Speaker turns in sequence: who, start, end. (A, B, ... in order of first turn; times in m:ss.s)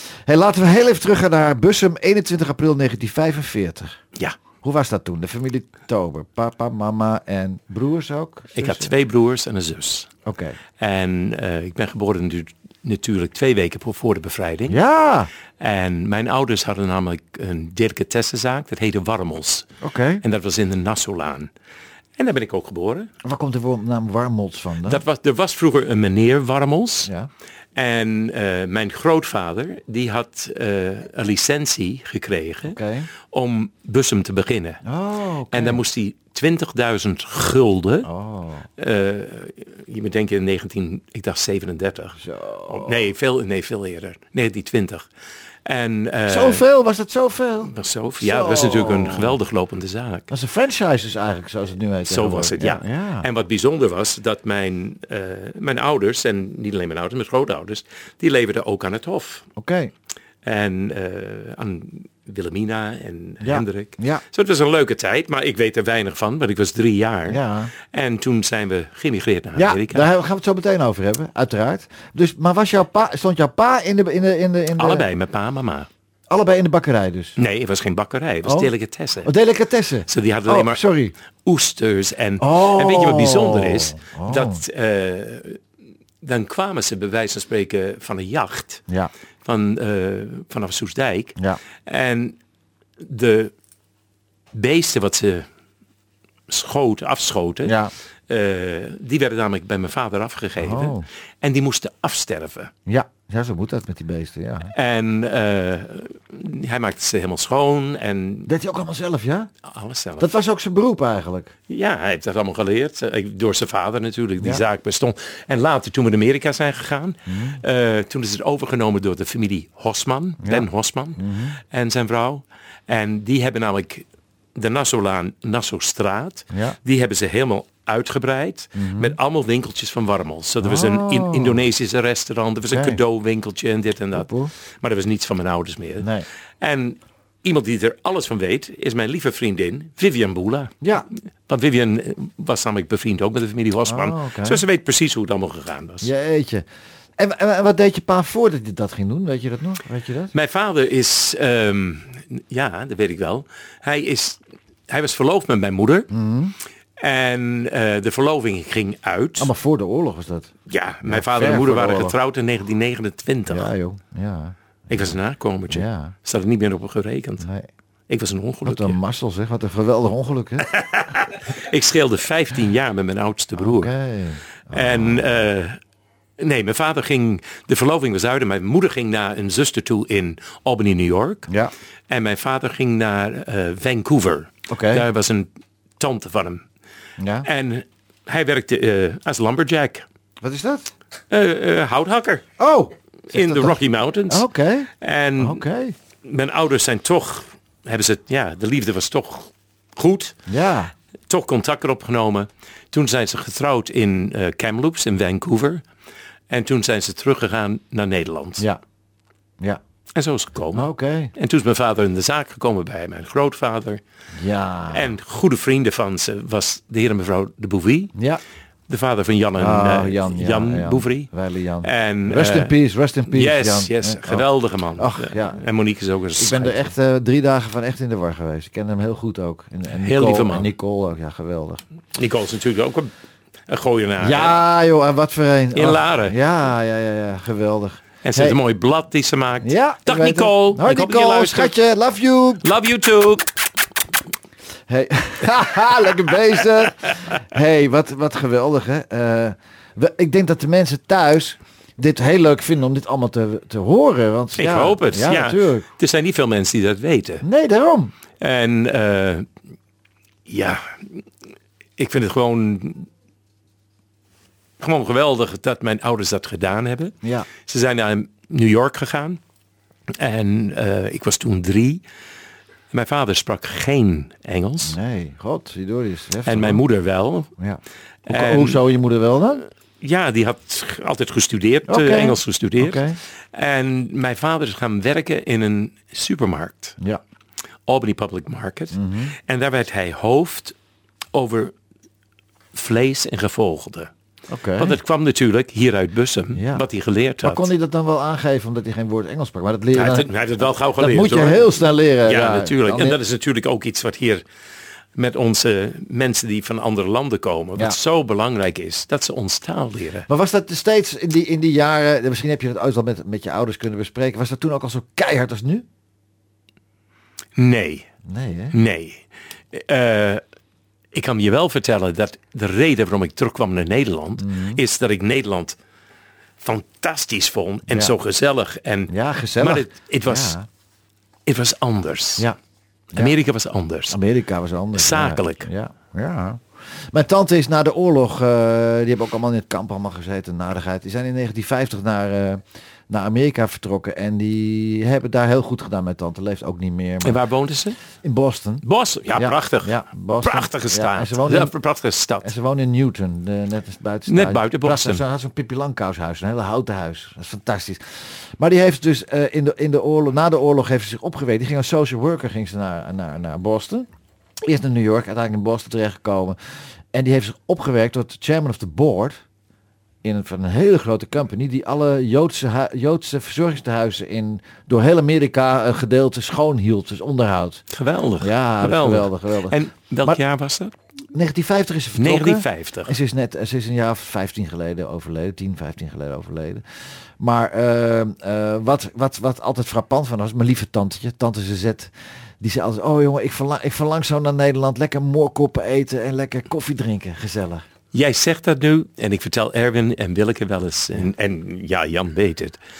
0:00.3-0:04.0 A
0:04.6-0:08.9 A
0:08.5-0:10.1 B
0:10.2-0:10.6 A
0:10.8-0:14.8 B
0:14.7-0:15.3 A
0:15.6-0:19.6 B
0:19.8-0:20.2 A
0:20.2-0:21.5 B
0:22.2-0:23.1 B
0:23.2-0:25.0 A
0:24.8-0:27.1 B
0:27.7-0:32.8 B
0:32.7-0:33.1 A
0:33.3-0:34.8 B
0:34.8-0:35.8 A
0:35.5-0:38.1 B
0:38.0-0:38.7 A
0:38.8-0:42.2 B
0:42.2-0:43.0 A
0:42.7-0:45.0 B
0:45.6-0:46.6 B
0:46.3-0:49.4 A
0:47.7-0:50.3 B
0:50.3-0:53.3 A
0:52.0-0:59.5 B
0:59.6-0:59.9 A
1:00.4-1:10.1 B
1:03.4-1:04.2 A
1:07.3-1:07.7 A
1:09.6-1:15.1 A
1:14.8-1:15.9 B
1:16.3-1:17.4 A
1:17.4-1:19.3 B
1:18.4-1:18.7 A
1:19.2-1:21.1 A
1:20.1-1:20.8 B
1:21.4-1:25.6 B
1:22.4-1:24.6 A
1:26.2-1:28.8 B
1:29.4-1:32.4 B
1:33.0-1:33.5 B
1:34.5-1:35.5 B
1:36.5-1:37.8 B
1:37.6-1:37.9 A
1:38.3-1:42.7 B
1:40.6-1:41.0 A
1:42.9-1:44.7 A
1:44.7-1:48.5 B
1:48.5-1:49.5 A
1:49.7-1:50.3 B
1:50.2-1:51.5 A
1:51.7-2:14.3 B
1:57.3-1:57.6 A
2:00.4-2:01.6 A
2:06.5-2:06.8 A
2:08.8-2:09.2 A
2:10.6-2:11.6 A
2:12.7-2:13.0 A
2:14.1-2:14.5 A
2:14.8-2:16.1 B
2:16.6-2:20.7 B
2:21.5-2:26.1 B
2:23.9-2:24.6 A
2:26.0-2:26.6 A
2:27.2-2:30.3 A
2:30.3-2:36.1 B
2:36.1-2:36.5 A
2:37.0-2:39.5 B
2:39.4-2:40.5 A
2:40.7-2:43.7 B
2:41.0-2:42.2 A
2:43.5-2:45.2 A
2:44.9-2:47.5 B
2:45.7-2:46.1 A
2:47.4-2:47.7 A
2:48.1-2:49.0 B
2:48.6-2:50.6 A
2:50.7-2:53.9 B
2:53.6-2:55.2 A
2:54.7-2:55.8 B
2:56.4-3:01.5 B
3:02.1-3:05.5 B
3:04.7-3:05.0 A
3:06.0-3:06.6 B
3:07.2-3:07.5 A
3:07.4-3:10.0 B
3:10.4-3:10.9 A
3:11.3-3:12.4 B
3:12.6-3:15.9 A
3:13.3-3:14.4 B
3:15.0-3:15.6 B
3:16.2-3:20.3 B
3:20.5-3:20.9 A
3:21.3-3:25.8 B
3:26.5-3:28.6 B
3:30.1-3:34.0 B
3:30.7-3:31.3 A
3:34.4-3:35.1 A
3:34.9-3:38.1 B
3:38.1-3:38.4 A
3:38.9-3:41.3 B
3:39.6-3:45.6 A
3:41.8-3:42.7 B
3:43.3-3:46.8 B
3:46.4-3:51.8 A
3:50.0-3:50.7 B
3:52.1-3:53.1 B
3:53.7-3:54.6 B
3:54.2-3:58.6 A
3:55.7-3:56.4 B
3:58.2-4:01.7 B
3:59.6-4:02.7 A
4:02.6-4:03.5 B
4:04.9-4:15.8 A
4:14.6-4:17.4 B
4:17.4-4:18.1 A
4:18.4-4:19.5 B
4:20.5-4:21.2 B
4:22.0-4:23.1 B
4:24.8-4:29.4 B
4:27.2-4:27.5 A
4:30.2-4:32.0 B
4:32.9-4:35.0 B
4:34.8-4:36.8 A
4:36.4-4:37.5 B
4:37.6-4:39.6 A
4:38.3-4:38.8 B
4:40.0-4:47.0 B
4:41.9-4:43.2 A
4:47.9-4:50.7 B
4:48.9-4:49.3 A
4:51.3-4:51.7 B
4:52.7-4:54.1 B
4:54.5-4:55.0 A
4:54.8-4:57.7 B
4:56.5-4:56.8 A
4:57.4-5:03.2 A
4:59.9-5:04.4 B
5:05.2-5:10.3 B
5:10.3-5:15.8 A
5:17.6-5:18.1 B
5:18.2-5:18.7 A
5:18.7-5:20.4 B
5:21.1-5:25.8 B
5:24.4-5:24.8 A
5:26.6-5:30.6 B
5:27.9-5:28.1 A
5:29.1-5:30.7 A
5:31.4-5:32.5 B
5:33.1-5:34.2 B
5:34.1-5:47.4 A
5:34.9-5:35.7 B
5:47.2-5:48.0 B
5:48.2-5:51.7 A
5:48.8-5:52.5 B
5:52.4-5:58.0 A
5:54.3-5:55.2 B
5:58.6-6:04.1 A
6:04.6-6:06.6 A
6:07.1-6:09.4 A
6:10.2-6:17.8 A
6:17.9-6:20.9 B
6:18.4-6:20.4 A
6:21.3-6:26.8 A
6:22.2-6:23.1 B
6:27.4-6:37.8 A
6:38.1-6:42.8 B